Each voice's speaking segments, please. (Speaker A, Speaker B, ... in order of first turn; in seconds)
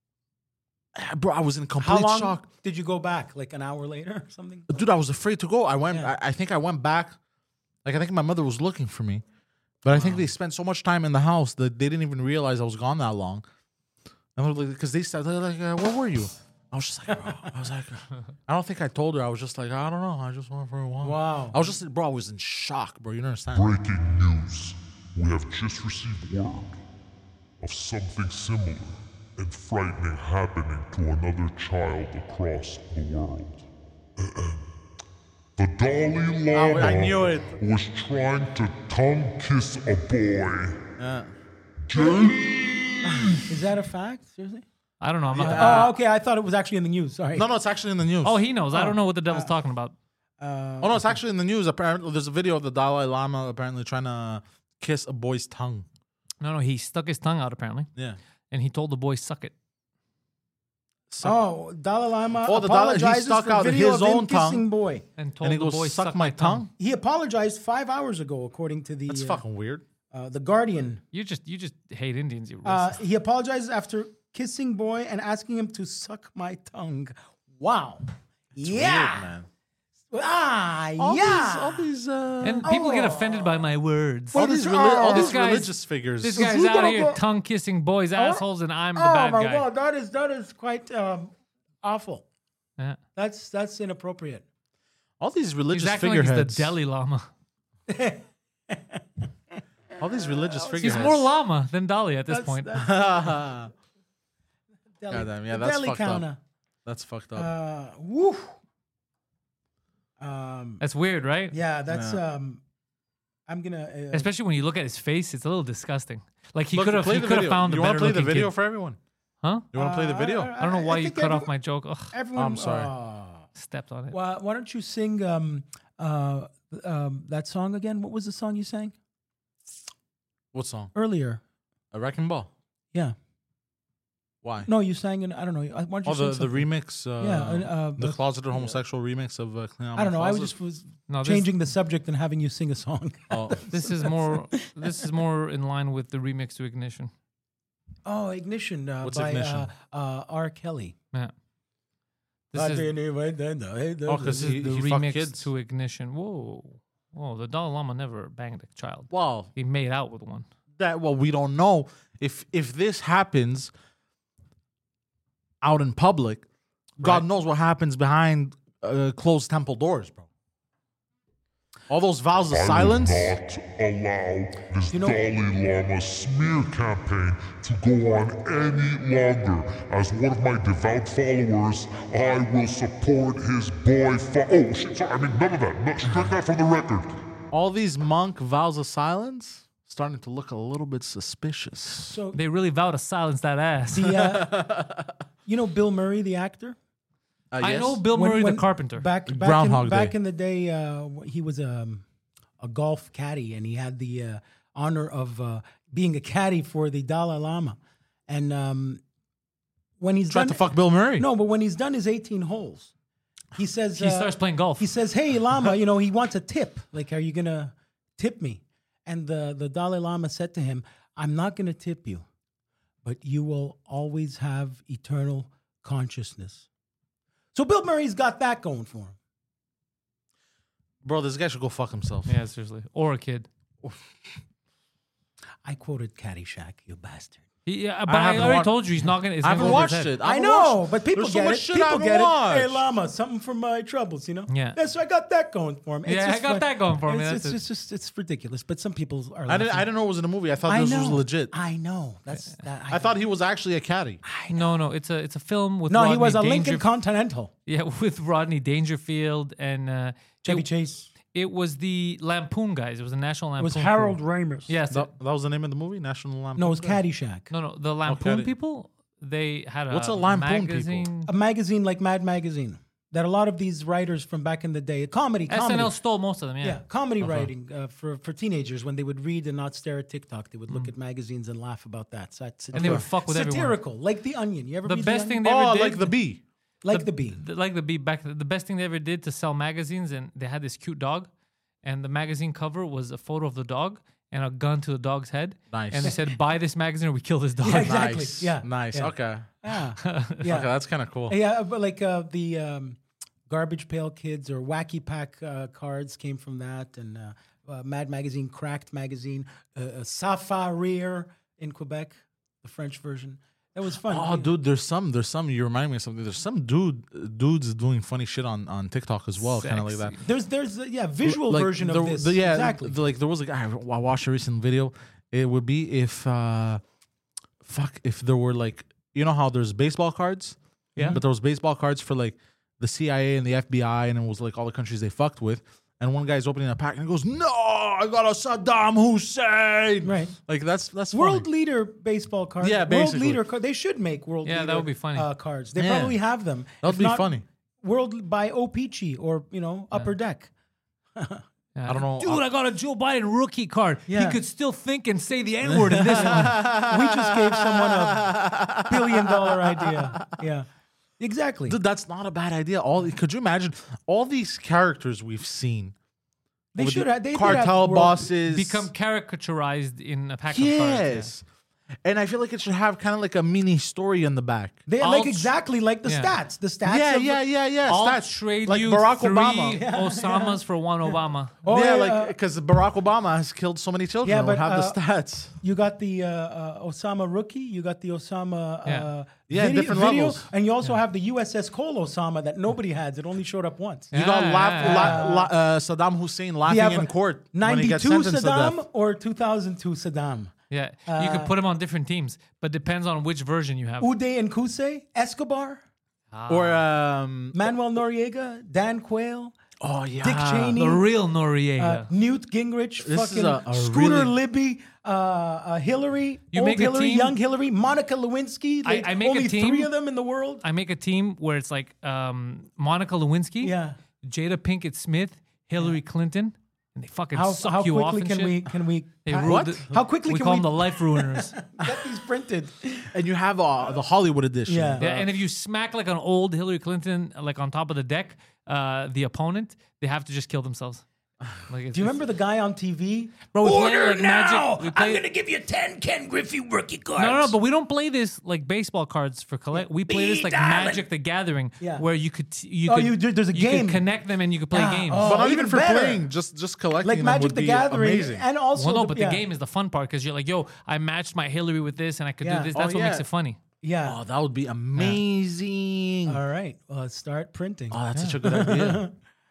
Speaker A: 0.9-2.5, 4.7-7.2, 7.8-9.2, 9.8-13.4, 14.4-23.7, 36.5-37.6, 41.0-41.3, 45.4-45.9, 47.3-48.4, 50.8-55.9, 61.1-61.4, 62.5-64.7, 65.4-66.7, 69.1-69.8, 78.6-79.5, 81.0-82.7, 84.3-86.6, 95.2-96.7, 100.0-101.3, 102.8-103.7, 105.1-106.3, 106.8-107.5, 111.9-112.2, 116.7-119.0, 119.7-120.5, 122.4-122.9, 130.5-130.9, 131.9-132.5, 134.4-134.7, 136.1-140.5, 143.3-143.6, 149.0-149.7, 154.1-155.5, 159.1-159.5, 160.8-163.7, 165.6-166.5, 167.0-170.3, 171.9-173.4, 187.5-192.1, 194.0-195.1, 197.5-198.0, 199.3-200.2, 210.3-211.3, 231.0-232.3, 238.1-238.9, 239.4-242.8, 249.5-251.5, 252.9-254.2, 264.9-267.0, 268.1-268.5, 269.9-271.1, 277.2-277.5, 282.7-283.1, 285.4-286.4, 295.7-296.1, 297.8-299.5, 300.4-301.4, 314.1-320.1, 321.2-326.8, 327.6-341.5, 342.6-343.4, 345.8-346.2, 346.8-347.4, 351.9-352.4, 355.7-360.3, 361.7-365.9, 366.8-368.9, 370.5-371.4, 372.0-375.3, 376.9-379.8, 381.7-385.6, 389.5-390.5, 394.1-398.8, 406.5-407.6, 409.8-410.8, 413.0-414.3, 429.4-429.9, 433.1-435.2, 455.2-458.4, 462.7-463.2, 464.0-466.4, 467.9-469.0
Speaker B: 1.8-4.7, 17.1-17.5, 21.0-21.6, 43.5-44.6, 45.4-47.5, 48.7-49.5, 50.4-51.2, 61.2-65.1, 66.8-69.4, 70.1-71.0, 72.7-79.3, 80.1-81.9, 82.6-83.7, 84.3-85.4, 86.4-87.2, 88.2-88.4, 89.0-92.2, 93.2-94.4, 97.9-99.0, 100.0-101.2, 102.3-103.5, 105.0-106.4, 107.4-108.5, 110.2-110.8, 111.5-112.6, 113.5-114.3, 119.8-121.5, 122.1-123.5, 124.1-128.9, 130.9-131.4, 134.7-138.8, 139.9-144.9, 148.1-151.0, 152.5-154.6, 174.9-175.3, 192.0-192.4, 193.9-194.7, 195.5-196.8, 198.1-202.0, 202.6-207.8, 208.3-209.0, 210.0-212.9, 213.6-222.2, 223.1-226.7, 227.5-229.2, 235.7-237.4, 239.6-249.9, 250.7-253.2, 254.2-254.8, 255.9-257.5, 260.4-261.1, 263.6-264.7, 266.6-267.5, 271.3-276.0, 276.6-285.4, 286.8-287.4, 297.6-300.7, 301.3-303.0, 303.5-314.5, 320.2-323.0, 340.0-340.4, 341.1-350.5, 351.2-351.4, 354.1-354.4, 356.1-360.7, 361.2-361.8, 366.7-368.3, 374.9-377.4, 379.7-380.6, 381.6-382.4, 384.2-385.0, 385.6-394.1, 394.8-395.5, 396.6-400.5, 401.1-401.5, 404.0-405.8, 407.5-409.6, 410.2-411.1, 411.8-420.6, 423.6-424.0, 427.3-433.1, 434.7-435.3, 441.9-447.5, 449.7-451.1, 451.8-452.1, 452.9-454.1, 454.7-456.3, 457.0-459.4, 462.4-462.7, 463.8-464.2, 466.3-469.1
Speaker C: 23.5-26.8, 27.6-33.7, 34.2-34.7, 35.6-40.9, 41.9-43.5, 172.5-187.2
Speaker D: 45.0-45.9, 48.2-50.0, 56.4-57.9, 58.5-59.5, 65.2-66.6, 71.1-73.0, 82.4-84.5, 85.1-89.7, 95.7-97.3, 100.8-102.7, 110.8-111.6, 114.1-118.5, 120.6-122.1, 123.6-124.2, 141.1-141.5, 143.7-147.1, 152.5-152.9, 154.3-160.5, 192.3-194.0, 197.6-199.1, 214.0-214.9, 232.3-233.5, 237.7-240.2, 244.5-244.8, 246.1-247.6, 254.5-256.9, 257.7-260.7, 261.3-264.2, 264.7-265.1, 267.5-271.3, 275.5-276.8, 282.8-283.8, 284.9-286.1, 286.9-291.3, 291.8-298.0, 300.0-300.4, 319.4-320.2, 344.4-345.3, 351.8-356.5, 368.5-371.3, 375.1-375.4, 376.1-376.3, 377.9-381.6, 394.1-395.2, 400.7-404.1, 406.3-406.8, 410.8-412.1, 416.5-417.4, 418.9-419.9, 420.6-428.7, 429.2-431.6, 435.0-441.0, 441.7-442.2, 443.5-445.2, 447.2-455.3, 458.8-463.6